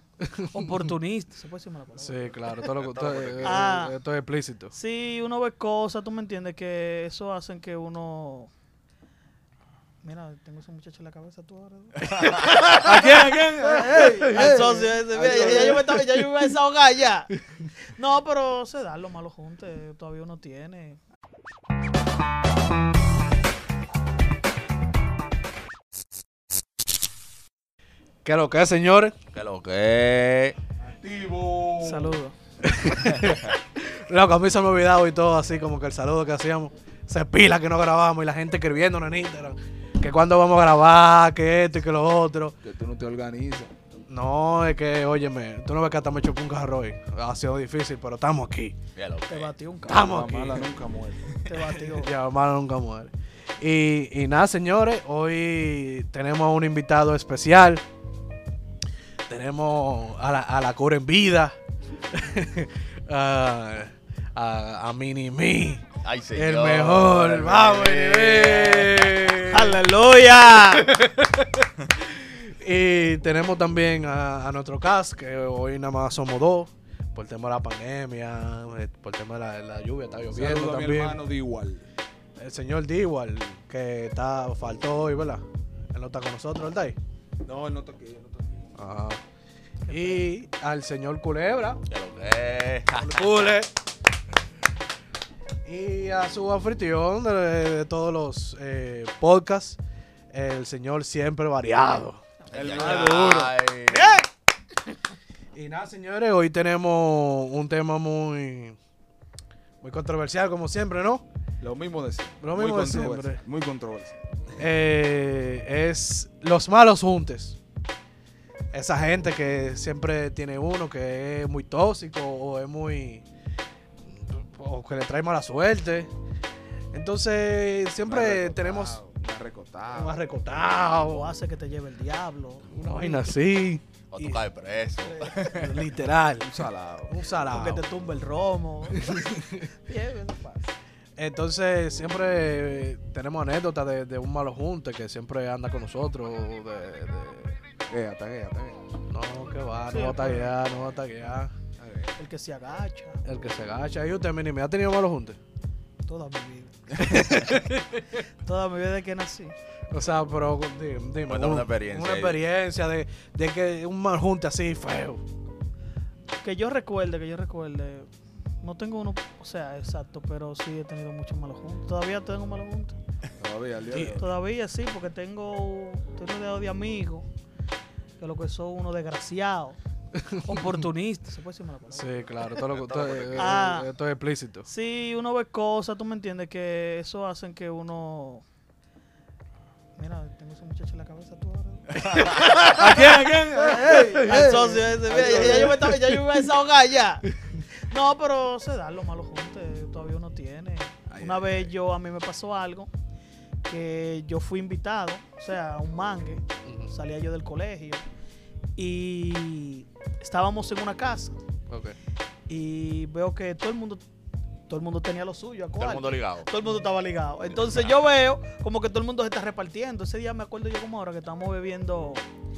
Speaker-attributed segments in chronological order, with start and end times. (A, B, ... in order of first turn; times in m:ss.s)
0:00.3-0:00.7 A
0:00.4-0:02.4 B
0:02.0-0:04.7 A
0:02.8-0:03.7 C
0:03.4-0:04.0 B
0:04.7-0:08.5 B
0:10.0-0:17.3 B
0:12.0-0:14.8 A
0:12.9-0:16.0 D
0:15.3-0:16.0 A
0:17.9-0:21.0 B
0:28.2-0:29.2 A
0:29.3-0:30.6 C
0:30.8-0:32.2 D
0:31.8-0:32.4 B
0:32.6-0:42.6 A
0:42.6-0:43.7 D
0:44.1-0:48.8 A
0:49.0-0:49.5 C
0:49.3-0:50.1 B
0:49.9-0:50.7 A
0:49.9-0:51.3 D
0:51.5-0:52.1 B
0:51.8-0:57.8 A
0:59.3-1:01.6 A
1:02.1-1:09.8 A
1:06.0-1:09.3 C
1:09.5-1:10.9 B
1:10.6-1:21.2 A
1:20.3-1:21.9 D
1:22.4-1:27.0 A
1:27.4-1:28.7 D
1:28.8-1:29.2 A
1:29.9-1:30.3 B
1:29.9-1:31.8 A
1:31.9-1:33.6 C
1:33.0-1:33.7 A
1:35.6-1:39.8 A
1:40.3-1:42.2 A
1:42.5-1:43.5 D
1:42.5-1:44.2 C
1:42.8-1:44.3 B
1:45.5-1:48.8 A
1:49.8-1:51.2 A
1:51.6-1:54.2 D
1:52.4-1:53.4 A
1:54.6-1:57.6 A
1:58.7-2:03.2 A
2:04.0-2:06.1 A
2:06.9-2:09.0 A
2:08.1-2:10.2 D
2:10.0-2:11.3 A
2:11.0-2:13.2 B
2:12.7-2:14.4 A
2:14.1-2:15.9 C
2:15.0-2:15.4 B
2:15.5-2:16.5 A
2:16.4-2:17.3 D
2:17.1-2:17.8 A
2:17.5-2:19.3 B
2:19.0-2:19.6 A
2:19.9-2:20.7 B
2:21.2-2:27.6 A
2:27.9-2:28.8 D
2:29.1-2:31.6 A
2:29.9-2:30.6 B
2:31.8-2:32.1 D
2:32.2-2:33.2 B
2:33.2-2:35.4 A
2:36.1-2:37.2 B
2:37.0-2:38.1 A
2:38.4-2:39.5 B
2:39.9-2:45.2 A
2:41.3-2:42.4 C
2:46.4-2:48.1 B
2:48.6-2:53.0 B
2:53.4-2:54.3 D
2:53.9-2:54.2 A
2:54.1-2:57.3 B
2:58.2-2:59.8 B
3:00.2-3:00.6 A
3:00.4-3:02.1 B
3:01.9-3:04.7 A
3:02.7-3:03.6 C
3:03.4-3:03.9 B
3:04.7-3:08.4 B
3:10.0-3:22.9 B
3:12.0-3:16.3 A
3:13.2-3:15.8 D
3:21.1-3:21.7 D
3:23.7-3:28.0 B
3:26.6-3:26.9 A
3:28.8-3:31.4 B
3:31.7-3:32.0 A
3:32.5-3:34.0 B
3:34.7-3:42.3 B
3:35.8-3:36.5 C